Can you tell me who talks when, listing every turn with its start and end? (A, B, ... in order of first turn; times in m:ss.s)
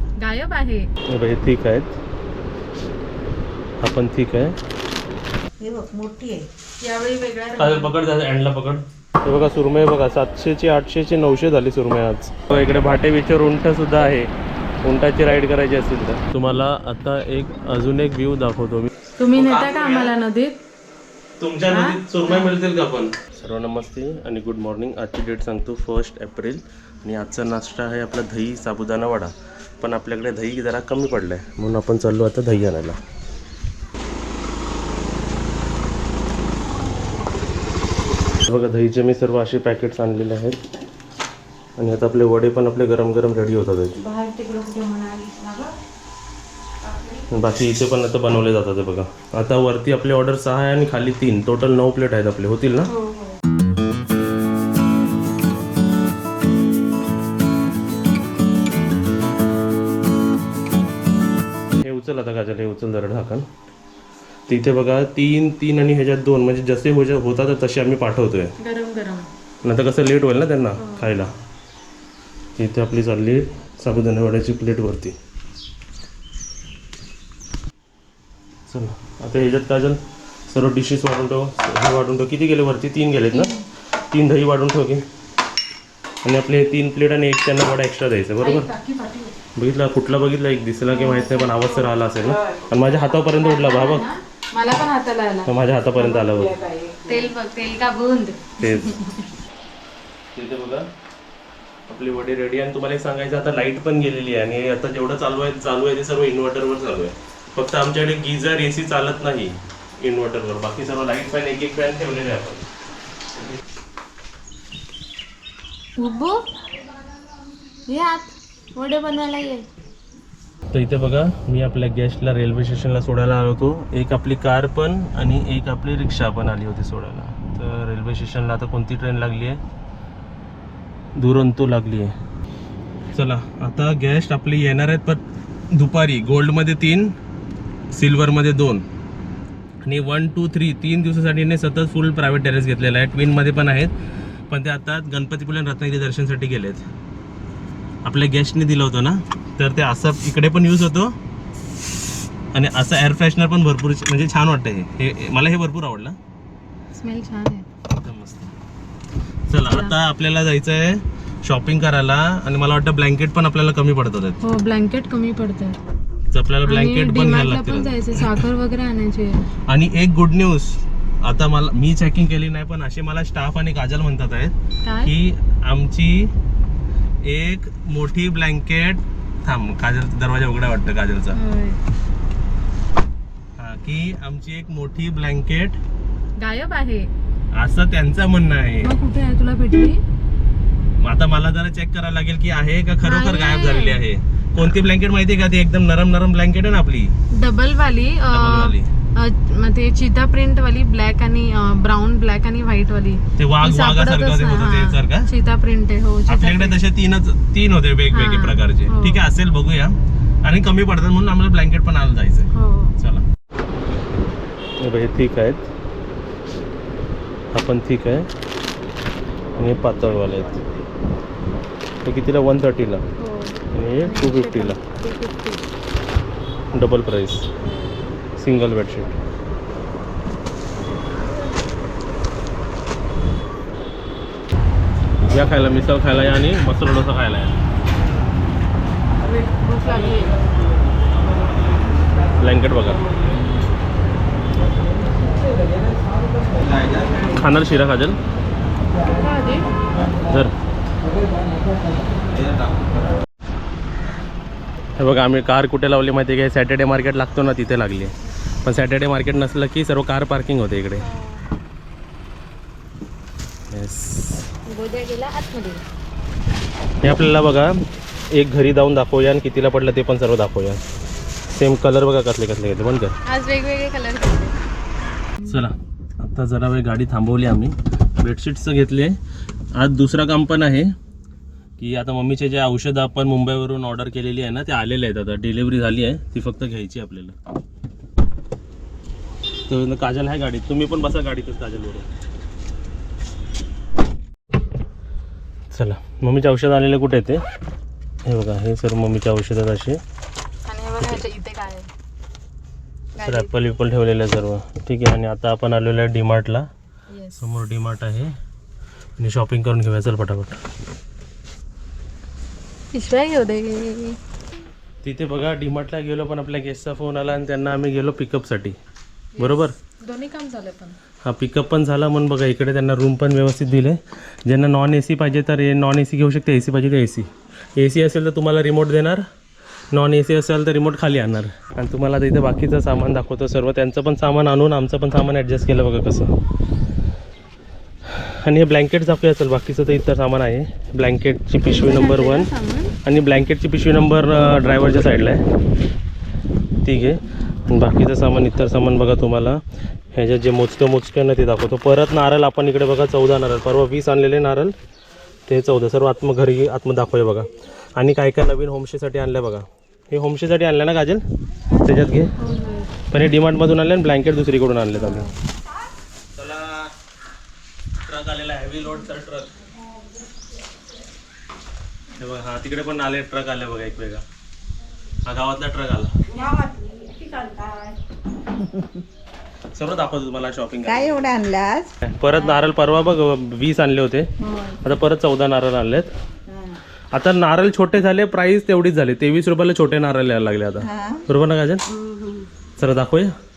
0:00.2-0:00.9 A
0:01.1-0:01.9 B
0:03.8-0:04.6 B
0:05.6-0:06.5 C
0:06.8-0:07.9 A
0:07.6-0:14.3 B
0:14.8-0:20.1 B
0:19.2-0:20.6 A
0:21.4-0:33.0 B
0:21.7-0:22.5 A
0:38.4-0:40.6 B
0:41.8-0:44.0 B
0:44.0-0:45.8 A
0:46.8-0:47.2 A
0:47.3-0:52.9 B
0:52.9-0:53.4 A
1:01.8-1:03.5 B
1:04.5-1:08.5 B
1:08.6-1:09.3 A
1:09.6-1:11.3 B
1:10.8-1:11.1 A
1:12.6-1:15.2 B
1:18.7-1:23.5 B
1:23.3-1:23.6 A
1:24.1-1:25.0 B
1:26.2-1:28.7 B
1:28.4-1:29.4 A
1:29.6-1:34.0 B
1:30.9-1:39.2 A
1:35.5-1:36.6 B
1:38.6-1:39.0 B
1:40.3-1:40.9 B
1:41.9-1:52.7 B
1:56.0-1:56.5 A
1:57.9-1:59.7 A
2:00.7-2:09.6 B
2:11.2-2:12.1 B
2:13.1-2:17.1 B
2:17.9-2:18.8 B
2:19.8-2:23.9 B
2:24.5-2:26.8 B
2:28.0-2:31.2 B
2:32.5-2:36.2 B
2:36.9-2:37.6 A
2:37.9-2:38.5 B
2:39.5-2:44.4 B
2:39.7-2:39.9 A
2:44.4-2:45.8 A
2:46.3-2:48.4 B
2:46.7-2:49.4 A
2:49.7-2:54.5 B
2:54.8-2:55.1 A
2:55.0-2:56.3 B
2:57.2-3:01.4 B
3:01.4-3:01.8 A
3:03.6-3:05.8 B
3:06.4-3:07.1 A
3:07.5-3:08.9 B
3:08.8-3:10.0 A
3:11.0-3:17.1 B
3:13.0-3:14.0 A
3:17.3-3:26.8 A
3:18.3-3:18.9 B
3:23.4-3:25.3 B
3:26.3-3:33.2 B
3:28.1-3:29.2 A
3:32.5-3:33.0 A
3:34.8-3:35.7 B
3:37.5-3:38.3 B
3:39.6-3:40.6 B
3:42.0-3:43.0 B
3:43.2-3:45.6 A
3:43.7-3:44.8 B
3:46.7-3:47.5 B
3:48.4-3:49.2 B
3:55.3-3:57.6 B
3:59.2-4:00.4 A
4:02.4-4:03.0 B
4:06.6-4:08.2 B
4:09.2-4:09.7 A
4:15.0-4:21.0 B
4:21.0-4:21.4 A
4:23.7-4:24.5 B
4:24.7-4:25.8 A
4:27.0-4:27.8 B
4:28.3-4:30.8 B
4:31.5-4:33.2 B
4:33.3-4:34.6 A
4:35.5-4:39.2 B
4:39.8-4:40.9 B
4:41.8-4:47.4 B
4:49.7-4:52.1 B
4:55.7-4:57.4 B
4:58.3-5:00.0 B
5:00.7-5:01.9 A
5:03.2-5:03.5 A
5:03.2-5:06.7 B
5:07.1-5:07.4 A
5:07.4-5:08.4 B
5:09.2-5:10.6 B
5:12.9-5:14.2 A
5:15.0-5:18.8 B
5:19.4-5:21.0 A
5:19.4-5:19.7 B
5:21.2-5:29.2 B
5:29.9-5:36.3 B
5:38.1-5:42.5 B
5:41.6-5:42.9 A
5:43.0-5:45.4 B
5:46.8-5:49.6 B
5:50.1-5:54.8 B
5:55.5-6:01.2 B
6:01.7-6:02.9 A
6:01.8-6:02.3 B
6:03.1-6:05.3 B
6:06.4-6:06.9 B
6:08.1-6:09.5 B
6:12.2-6:14.2 B
6:15.3-6:16.1 B
6:16.4-6:17.9 A
6:16.4-6:17.5 C
6:18.6-6:19.0 C
6:19.8-6:21.3 B
6:20.8-6:22.7 C
6:22.0-6:24.3 B
6:24.4-6:24.8 C
6:24.8-6:26.1 B
6:26.5-6:26.8 C
6:27.1-6:31.8 B
6:30.8-6:31.2 C
6:32.0-6:32.3 C
6:32.8-6:33.3 B